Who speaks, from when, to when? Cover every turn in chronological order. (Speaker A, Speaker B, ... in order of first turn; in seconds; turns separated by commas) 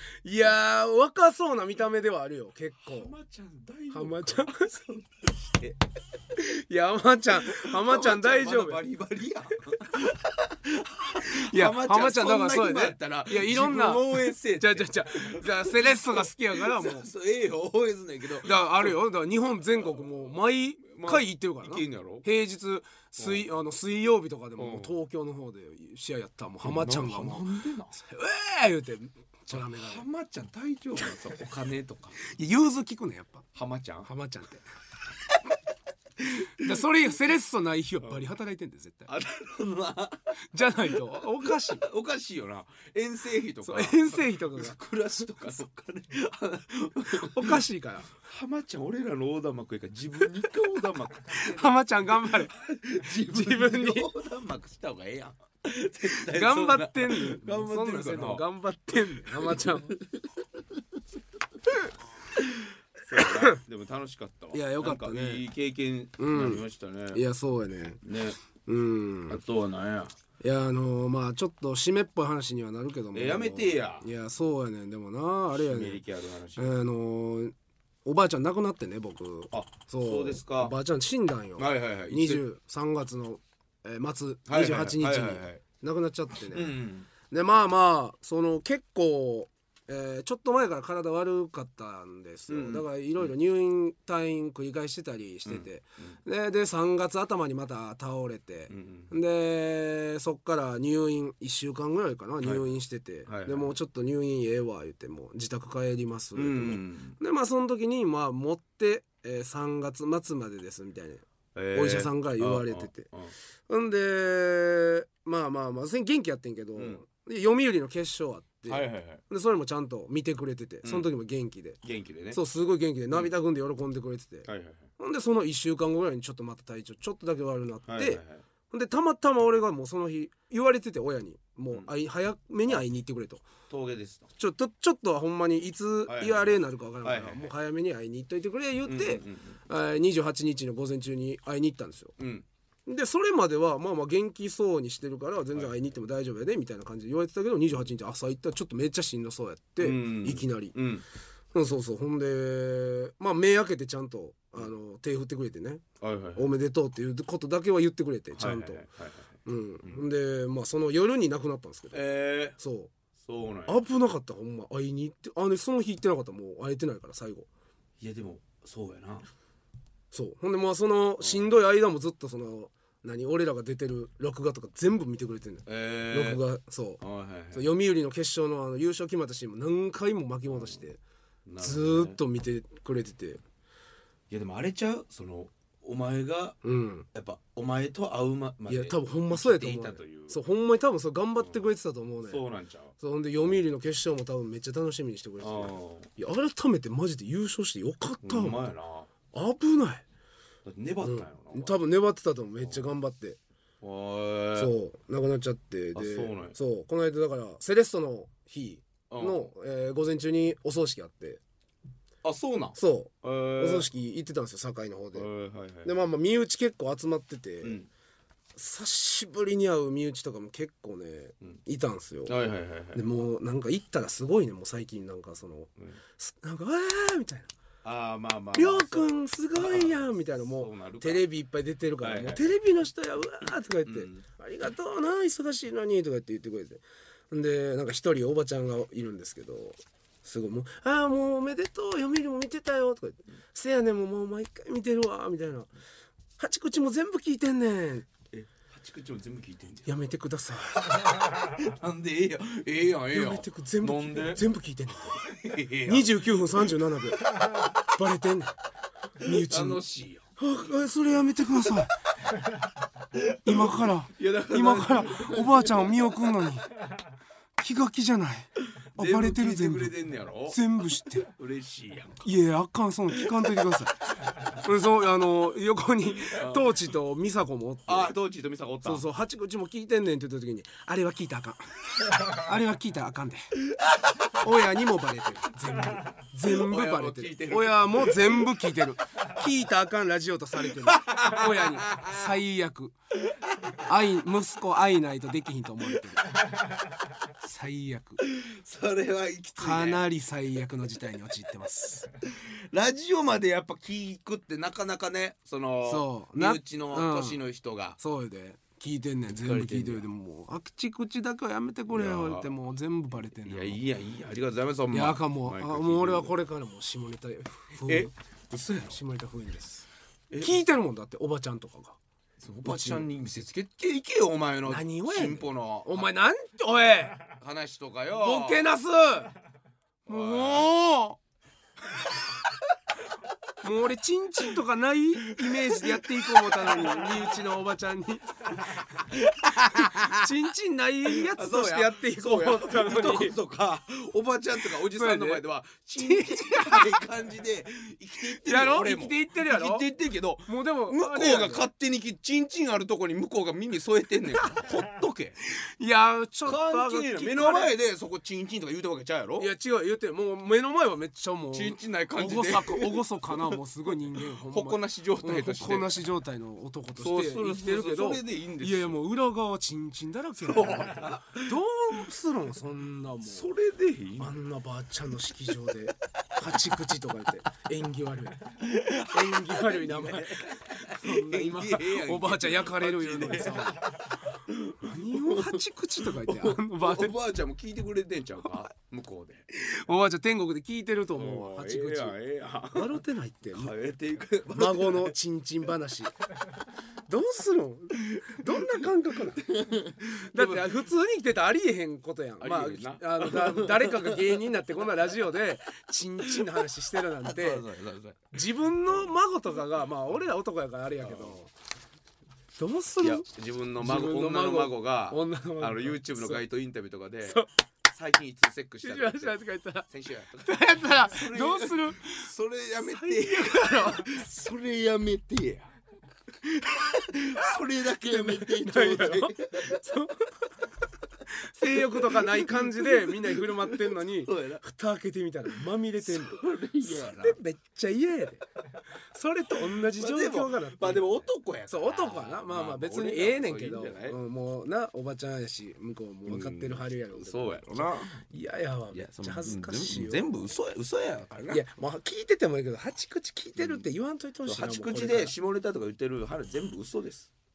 Speaker A: 0.2-3.1, Speaker B: 2.8-5.8, Speaker A: 3.9-4.7, Speaker A: 6.3-8.8, Speaker B: 7.4-18.9, Speaker A: 11.2-17.1, Speaker A: 18.4-30.0, Speaker B: 19.9-20.3, Speaker B: 20.9-22.2, Speaker B: 23.2-23.4, Speaker B: 24.6-24.9, Speaker B: 26.6-27.9, Speaker B: 29.5-32.2, Speaker A: 32.2-33.4, Speaker B: 33.5-34.1, Speaker A: 34.0-34.6, Speaker A: 36.4-39.1, Speaker B: 39.1-58.4, Speaker A: 40.4-41.8, Speaker A: 43.6-44.8, Speaker A: 47.1-48.1, Speaker A: 51.3-54.1, Speaker A: 56.1-60.0, Speaker B: 59.2-60.8, Speaker B: 62.4-67.2, Speaker A: 63.2-63.6, Speaker A: 64.5-65.4, Speaker A: 66.2-68.0, Speaker B: 68.0-68.4, Speaker A: 68.7-69.4, Speaker B: 69.3-70.2, Speaker A: 70.4-76.0, Speaker B: 73.1-74.1, Speaker B: 75.5-76.8, Speaker A: 76.5-77.5, Speaker A: 78.0-86.7, Speaker B: 79.5-80.7, Speaker B: 81.6-82.4, Speaker B: 84.5-85.6, Speaker B: 86.5-87.1, Speaker A: 87.3-113.1, Speaker B: 92.5-93.3, Speaker B: 95.5-96.1, Speaker B: 98.7-99.1, Speaker B: 102.4-102.7, Speaker B: 103.3-103.7, Speaker B: 106.3-107.2, Speaker B: 111.5-113.3, Speaker A: 113.7-121.8, Speaker B: 116.8-117.0, Speaker B: 118.7-119.2, Speaker B: 121.8-122.4, Speaker A: 122.3-124.5, Speaker B: 124.4-124.9, Speaker A: 125.0-133.4, Speaker B: 127.9-128.4, Speaker B: 133.7-134.3, Speaker A: 134.4-142.1, Speaker B: 136.1-137.5, Speaker B: 138.8-139.6, Speaker B: 142.2-142.4, Speaker A: 142.9-150.7, Speaker B: 149.8-151.0, Speaker A: 151.5-155.8, Speaker B: 156.0-156.5, Speaker A: 156.3-158.8, Speaker B: 158.3-159.3, Speaker A: 159.4-162.0, Speaker B: 161.9-162.6, Speaker A: 162.6-162.9, Speaker B: 163.2-163.8, Speaker A: 163.7-167.5, Speaker B: 168.0-169.3, Speaker A: 170.1-177.0, Speaker B: 171.2-171.5, Speaker B: 175.7-176.4, Speaker B: 177.0-177.7, Speaker A: 177.5-181.0, Speaker B: 180.5-180.8, Speaker B: 181.4-182.2, Speaker A: 181.6-183.4, Speaker B: 184.3-186.6, Speaker A: 186.6-187.1, Speaker B: 187.1-190.4, Speaker A: 188.7-192.4, Speaker B: 192.2-192.9, Speaker A: 193.0-198.7, Speaker B: 195.4-196.1, Speaker B: 198.2-199.1, Speaker A: 199.3-200.0, Speaker B: 200.6-201.8, Speaker A: 201.0-203.4, Speaker B: 203.8-204.7, Speaker A: 204.5-211.4, Speaker B: 205.9-206.6, Speaker B: 209.1-209.5, Speaker B: 212.2-213.9, Speaker A: 212.8-215.3, Speaker B: 215.1-216.0, Speaker A: 215.8-217.8, Speaker B: 217.6-217.9, Speaker A: 218.6-222.4, Speaker B: 222.2-223.1, Speaker A: 222.9-227.5, Speaker B: 227.8-231.2, Speaker A: 228.5-245.7, Speaker B: 232.0-232.5, Speaker B: 233.8-234.2, Speaker A: 246.4-248.1, Speaker B: 248.3-249.9, Speaker A: 249.8-251.0, Speaker B: 251.2-254.4, Speaker A: 253.1-255.2, Speaker B: 255.0-256.6, Speaker A: 255.8-257.3, Speaker A: 257.9-258.5, Speaker A: 259.2-259.8, Speaker B: 259.2-260.2, Speaker A: 260.4-261.9, Speaker B: 263.1-266.1, Speaker A: 263.4-266.7, Speaker A: 267.6-269.9, Speaker B: 268.8-272.2, Speaker A: 270.5-271.3, Speaker A: 272.2-274.0, Speaker A: 274.6-278.1, Speaker B: 276.3-276.8, Speaker B: 277.9-279.0, Speaker A: 278.8-281.6, Speaker A: 282.2-283.5, Speaker A: 284.3-292.9, Speaker B: 286.4-288.6, Speaker B: 290.7-292.4, Speaker A: 293.8-296.2, Speaker A: 297.4-298.2, Speaker B: 298.2-300.0, Speaker A: 299.6-302.1, Speaker B: 302.2-308.0, Speaker A: 305.8-307.4, Speaker A: 308.0-313.8, Speaker B: 309.3-310.0, Speaker B: 311.9-312.5, Speaker B: 313.4-316.3, Speaker A: 314.9-318.1, Speaker B: 317.8-319.0, Speaker A: 318.8-319.9, Speaker B: 320.3-320.6, Speaker A: 320.4-322.0, Speaker B: 322.4-326.1, Speaker A: 322.6-323.1, Speaker A: 324.6-327.2, Speaker B: 327.4-328.7, Speaker A: 328.1-329.3, Speaker A: 330.1-331.2, Speaker B: 330.1-330.7, Speaker A: 333.6-338.8, Speaker B: 335.3-337.3, Speaker B: 338.9-340.3, Speaker A: 339.5-343.4, Speaker B: 341.1-355.4, Speaker A: 344.7-345.4, Speaker A: 346.0-347.0, Speaker A: 348.3-349.9, Speaker A: 350.4-351.6, Speaker A: 355.5-357.7, Speaker B: 356.4-359.5, Speaker A: 359.4-373.5, Speaker B: 361.5-363.5, Speaker B: 364.1-366.0, Speaker B: 366.9-369.0, Speaker B: 370.4-371.6, Speaker B: 373.2-374.3, Speaker A: 374.2-378.5, Speaker B: 378.6-389.5, Speaker A: 379.1-387.1, Speaker A: 389.5-392.1, Speaker B: 391.1-395.1, Speaker A: 392.7-393.7, Speaker A: 394.5-396.1, Speaker A: 397.1-399.5, Speaker B: 398.1-400.8, Speaker A: 400.3-407.7, Speaker B: 402.4-404.4, Speaker B: 407.2-408.4, Speaker A: 408.3-411.5, Speaker B: 411.0-411.4, Speaker A: 412.6-413.3, Speaker B: 413.0-425.7, Speaker A: 413.8-416.4, Speaker A: 418.8-419.9, Speaker A: 420.4-424.1, Speaker B: 426.4-429.8, Speaker A: 428.0-430.4, Speaker A: 431.3-438.4, Speaker B: 431.6-434.6, Speaker B: 436.0-437.4, Speaker A: 439.1-450.3, Speaker B: 439.8-444.2, Speaker B: 446.2-448.2, Speaker B: 448.9-451.6, Speaker A: 451.5-455.3, Speaker B: 453.6-453.8, Speaker B: 454.4-457.3